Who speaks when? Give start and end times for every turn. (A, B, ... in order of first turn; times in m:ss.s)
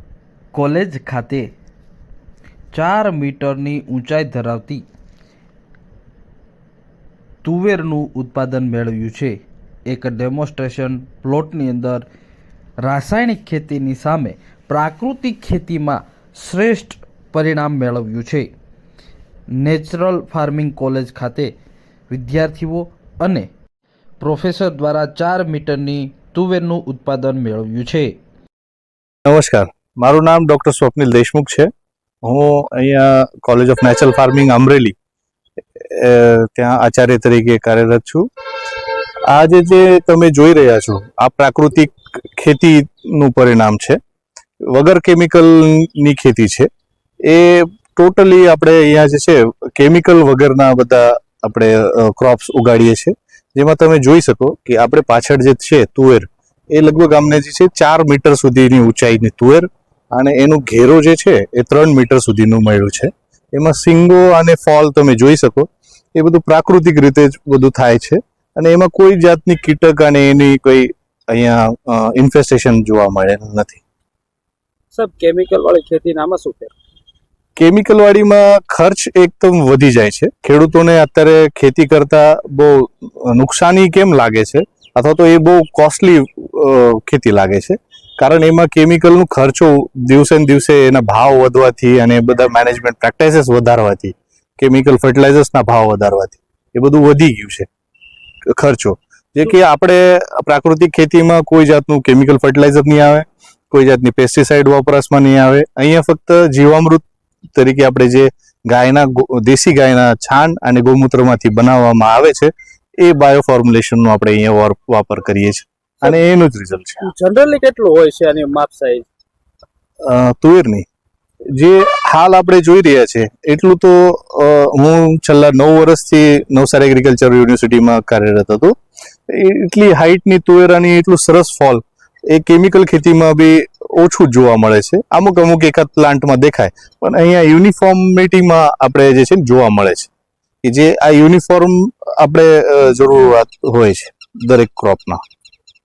0:00.5-0:01.5 A
0:02.7-0:04.8 A
0:07.4-0:09.4 A
0:09.9-0:12.0 A
0:12.8-0:18.5 A
0:19.6-0:21.5 A
0:22.1-0:23.5 A
0:24.2-0:28.1 A
0:29.2-0:31.7 B
0:32.2-0:34.9 B
0:35.8-0:38.3 B
0:39.3-0:44.0 B
0:44.6-0:46.7 B
0:47.2-1:13.8 B
1:14.9-1:16.7 C
1:17.6-1:37.7 B
1:38.5-1:47.0 B
1:47.6-1:57.1 B
1:57.0-1:59.0 C
2:00.0-2:00.8 B
2:01.6-2:08.7 B
2:09.3-2:20.1 B
2:20.6-2:25.2 B